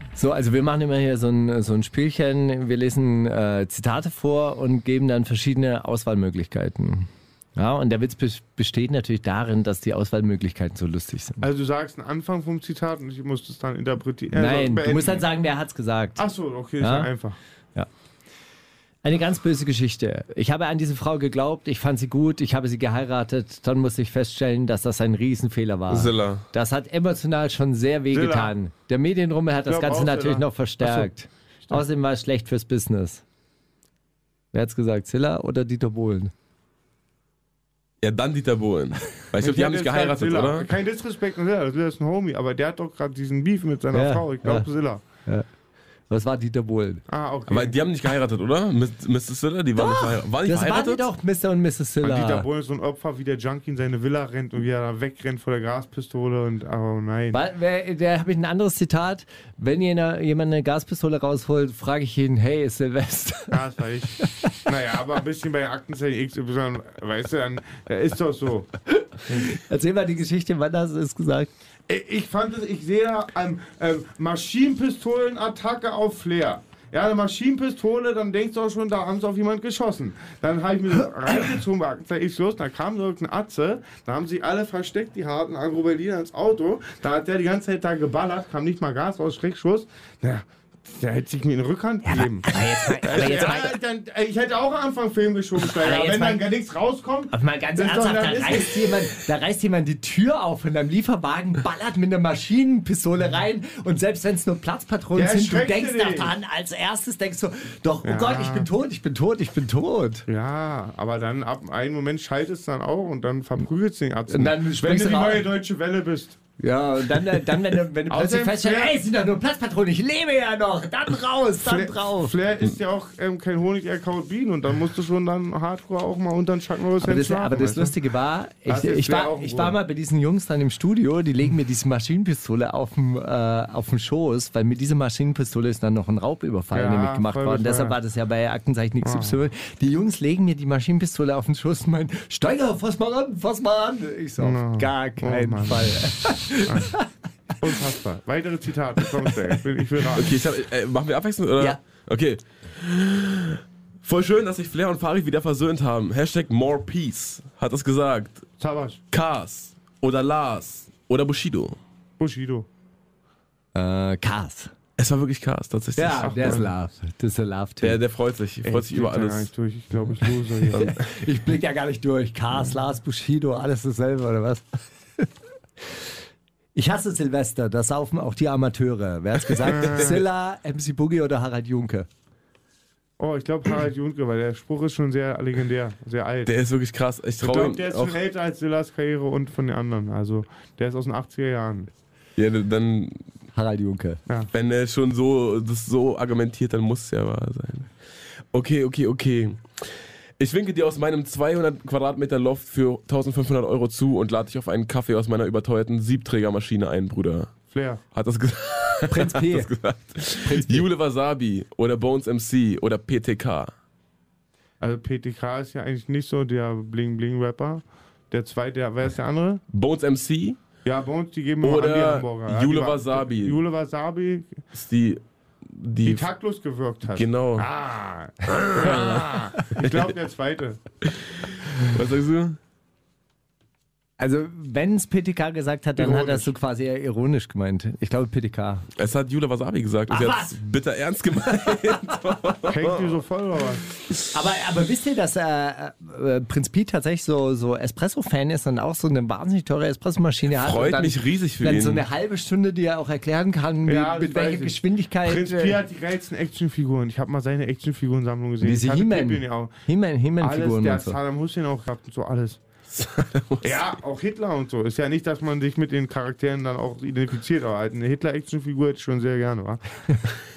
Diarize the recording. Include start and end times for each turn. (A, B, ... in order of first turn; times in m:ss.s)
0:00.2-0:11.4 A
0:11.4-0:15.3 B
0:14.3-0:16.2 A
0:16.2-0:17.4 B
0:16.8-0:17.1 A
0:19.0-0:33.2 A
0:25.9-0:26.4 C
0:28.1-0:28.5 B
0:29.7-0:31.1 B
0:34.5-0:36.3 A
0:38.0-0:40.7 C
0:39.4-0:45.0 B
0:43.9-0:44.7 A
0:46.1-0:47.0 A
0:47.1-0:47.8 B
0:47.5-0:51.1 C
0:49.8-0:52.5 A
0:52.0-0:57.4 B
0:57.3-1:03.6 A
1:03.5-1:08.7 B
1:04.2-1:04.6 A
1:09.3-1:11.5 A
1:11.9-1:39.1 B
1:32.1-1:33.8 A
1:35.7-1:36.4 A
1:37.3-1:50.3 A
1:45.2-1:46.4 B
1:48.0-1:48.7 B
1:50.3-1:56.4 B
1:54.3-1:55.5 A
1:56.6-2:02.4 A
1:58.1-1:59.0 B
2:01.6-2:07.9 B
2:07.0-2:27.1 A
2:08.7-2:09.8 B
2:16.7-2:18.0 B
2:19.0-2:19.4 B
2:24.4-2:26.0 B
2:26.6-2:26.9 B
2:27.6-2:30.4 B
2:30.1-2:38.5 C
2:38.6-2:39.0 B
2:39.1-2:41.8 C
2:42.2-2:42.7 B
2:43.8-2:44.7 A
2:45.0-2:46.7 C
2:46.0-2:48.0 A
2:46.2-2:46.7 B
2:47.8-2:49.5 C
2:48.6-2:50.9 B
2:50.7-2:54.7 A
2:50.7-2:51.0 C
2:56.8-3:02.1 A
2:59.6-3:00.1 C
2:59.6-3:00.2 B
3:03.2-3:06.5 B
3:06.5-3:08.2 C
3:07.4-3:11.9 B
3:12.4-3:13.2 C
3:13.5-3:14.2 A
3:14.5-3:17.9 C
3:18.5-3:19.9 C
3:20.4-3:27.6 C
3:27.7-3:28.0 B
3:28.1-3:33.7 C
3:29.1-3:29.7 A
3:30.4-3:30.9 A
3:34.8-3:39.6 B
3:39.7-3:40.6 C
3:40.8-3:44.6 B
3:41.6-3:43.6 C
3:44.7-3:45.2 C
3:45.7-3:46.3 C
3:46.0-3:50.8 B
3:47.1-3:47.7 C
3:48.5-3:49.2 C
3:49.7-3:50.0 C
3:51.1-3:52.6 C
3:54.2-3:58.9 A
3:56.0-3:56.5 B
3:59.0-4:03.2 C
4:00.1-4:00.6 A
4:01.5-4:02.1 A
4:02.7-4:03.8 B
4:04.3-4:15.8 A
4:10.6-4:12.0 C
4:13.8-4:19.8 B
4:18.6-4:21.2 A
4:20.4-4:22.6 B
4:22.9-4:23.8 C
4:23.6-4:29.8 B